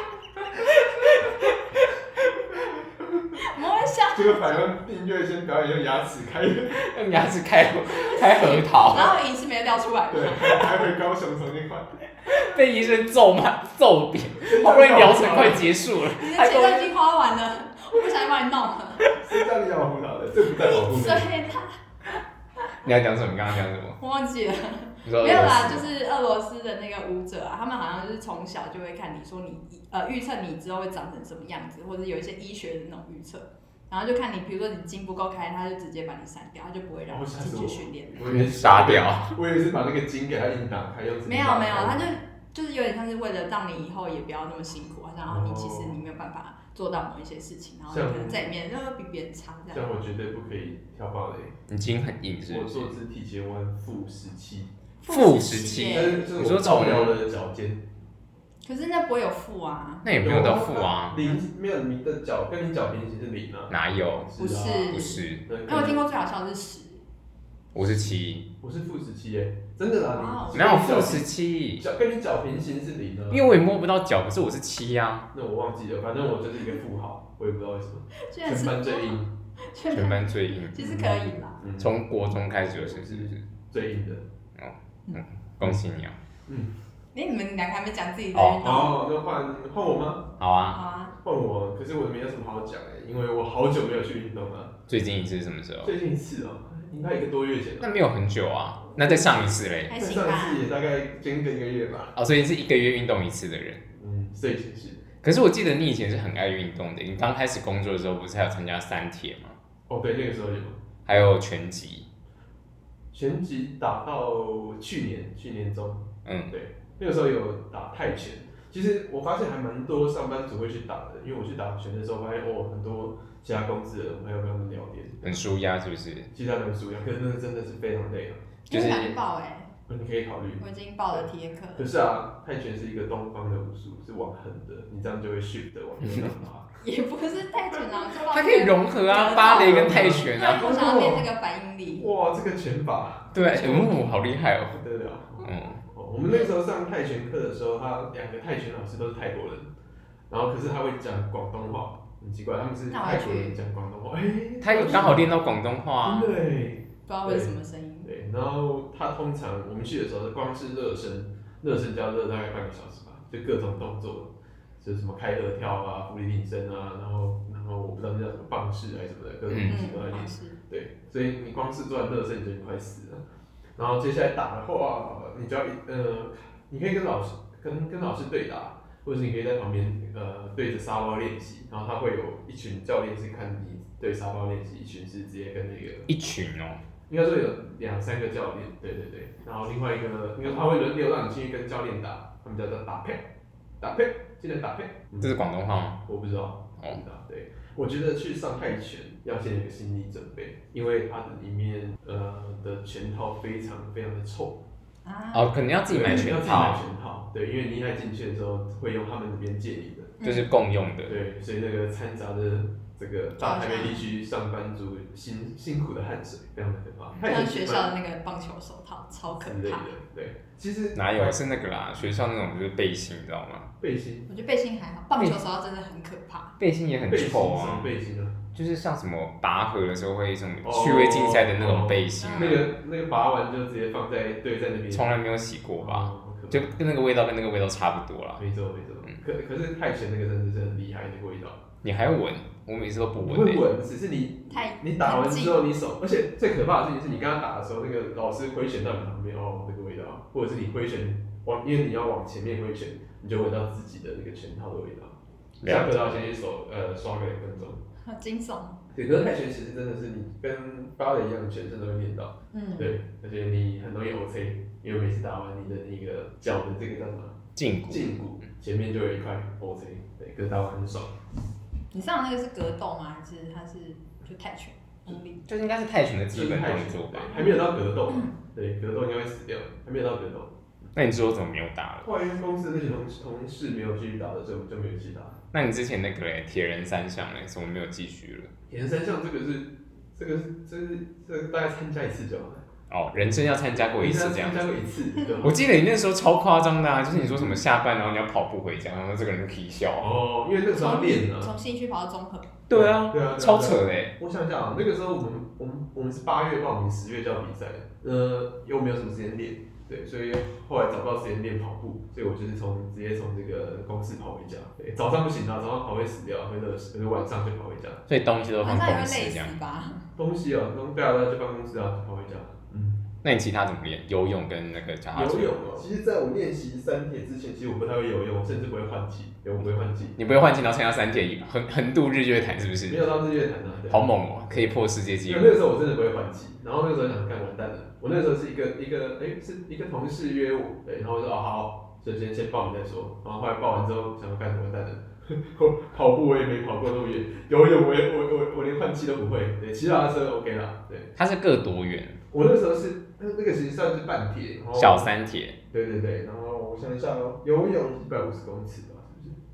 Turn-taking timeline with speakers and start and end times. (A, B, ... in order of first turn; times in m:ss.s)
0:00.6-0:01.8 A
0:03.0-0:03.2 B
0:03.4-0:04.6 C
0:04.1-0:06.8 B
0:06.7-0:09.2 A
0:07.9-0:10.7 C
0:10.1-0:12.0 B
0:12.2-0:16.9 A
0:14.4-0:15.7 B
0:16.1-0:19.1 C
0:19.1-0:21.3 B
0:20.5-0:21.8 C
0:22.8-0:24.0 A
0:24.0-0:38.3 C
0:25.0-0:25.8 A
0:37.1-0:42.0 B
0:38.2-0:39.3 A
0:41.2-0:49.9 C
0:45.3-0:46.0 B
0:47.9-0:48.5 B
0:49.7-0:51.5 B
0:51.7-0:52.9 A
0:52.4-0:54.7 B
0:55.0-0:56.3 C
0:55.1-0:57.2 A
0:55.9-0:57.8 B
0:58.6-1:00.0 C
1:00.0-1:01.2 A
1:00.2-1:06.0 B
1:03.7-1:04.3 A
1:04.4-1:07.0 C
1:04.9-1:05.4 A
1:07.7-1:08.5 A
1:08.6-1:13.4 B
1:10.1-1:10.8 C
1:10.5-1:11.8 A
1:13.3-1:15.3 A
1:15.3-1:19.3 B
1:18.2-1:21.6 C
1:19.9-1:23.4 A
1:20.8-1:21.9 B
1:22.7-1:24.2 B
1:24.6-1:26.2 A
1:26.5-1:26.7 B
1:27.1-1:29.1 C
1:28.3-1:28.7 A
1:28.6-1:30.3 B
1:30.4-1:30.8 A
1:30.7-1:31.1 C
1:31.2-1:34.7 B
1:34.9-1:35.9 A
1:35.8-1:37.9 B
1:37.8-1:39.9 A
1:39.9-1:40.6 C
1:39.9-1:42.1 B
1:42.2-1:43.8 A
1:43.9-1:45.0 B
1:45.2-1:49.6 A
1:49.9-1:50.8 B
1:51.0-1:52.0 A
1:53.1-2:05.4 B
1:56.2-1:56.5 A
2:05.2-2:06.3 A
2:06.3-2:08.4 B
2:08.7-2:09.7 C
2:08.7-2:09.2 A
2:09.9-2:11.2 B
2:10.6-2:11.9 C
2:11.8-2:16.7 B
2:16.0-2:16.3 A
2:16.8-2:22.1 C
2:18.3-2:20.7 A
2:19.4-2:21.3 B
2:22.0-2:23.9 B
2:23.3-2:24.8 A
2:24.7-2:29.7 B
2:25.4-2:25.8 A
2:30.3-2:35.4 B
2:32.9-2:33.6 C
2:34.6-2:36.3 A
2:36.0-2:53.2 B
2:37.1-2:38.1 C
2:49.5-2:49.8 A
2:49.6-2:50.6 C
2:53.8-3:06.1 B
3:06.1-3:06.8 A
3:07.1-3:13.3 B
3:13.8-3:15.3 B
3:15.2-3:16.0 A
3:16.0-3:24.6 B
3:25.0-3:25.6 C
3:25.3-3:26.8 A
3:25.8-3:30.2 B
3:30.2-3:30.5 C
3:30.2-3:31.2 A
3:31.1-3:38.0 B
3:33.4-3:34.0 C
3:37.2-3:40.0 C
3:39.4-3:41.5 B
3:40.9-3:43.7 A
3:43.8-3:44.3 B
3:44.3-3:46.5 C
3:45.1-3:45.4 A
3:46.6-3:47.9 A
3:47.1-3:48.4 B
3:48.5-3:52.7 A
3:50.6-3:55.1 B
3:52.2-3:52.6 C
3:54.9-3:58.4 A
3:55.8-3:56.7 B
3:58.4-4:01.6 B
4:01.8-4:03.6 A
4:03.2-4:17.8 B
4:04.5-4:05.6 C
4:15.6-4:16.0 A
4:18.0-4:18.8 C
4:18.9-4:31.2 B
4:22.5-4:23.0 C
4:27.6-4:28.1 A
4:31.9-4:35.4 C
4:35.4-4:37.3 A
4:36.3-4:40.5 B
4:37.3-4:38.3 C
4:40.9-4:42.1 A
4:42.0-4:45.4 B
4:45.5-4:48.5 A
4:48.7-4:52.6 B
4:52.9-4:54.7 A
4:54.0-4:55.7 B
4:55.4-5:00.1 A
4:57.1-4:57.6 B
5:00.0-5:01.5 B
5:00.7-5:02.6 C
5:02.7-5:04.1 A
5:02.7-5:18.0 B
5:18.1-5:19.5 A
5:18.6-5:20.0 C
5:20.2-5:23.0 B
5:23.2-5:25.7 A
5:25.1-5:30.2 B
5:30.2-5:33.1 A
5:32.9-5:34.0 B
5:33.9-5:35.6 A
5:35.2-5:51.1 B
5:51.2-5:52.2 A
5:52.3-5:55.1 B
5:54.8-5:55.6 A
5:55.7-5:59.4 B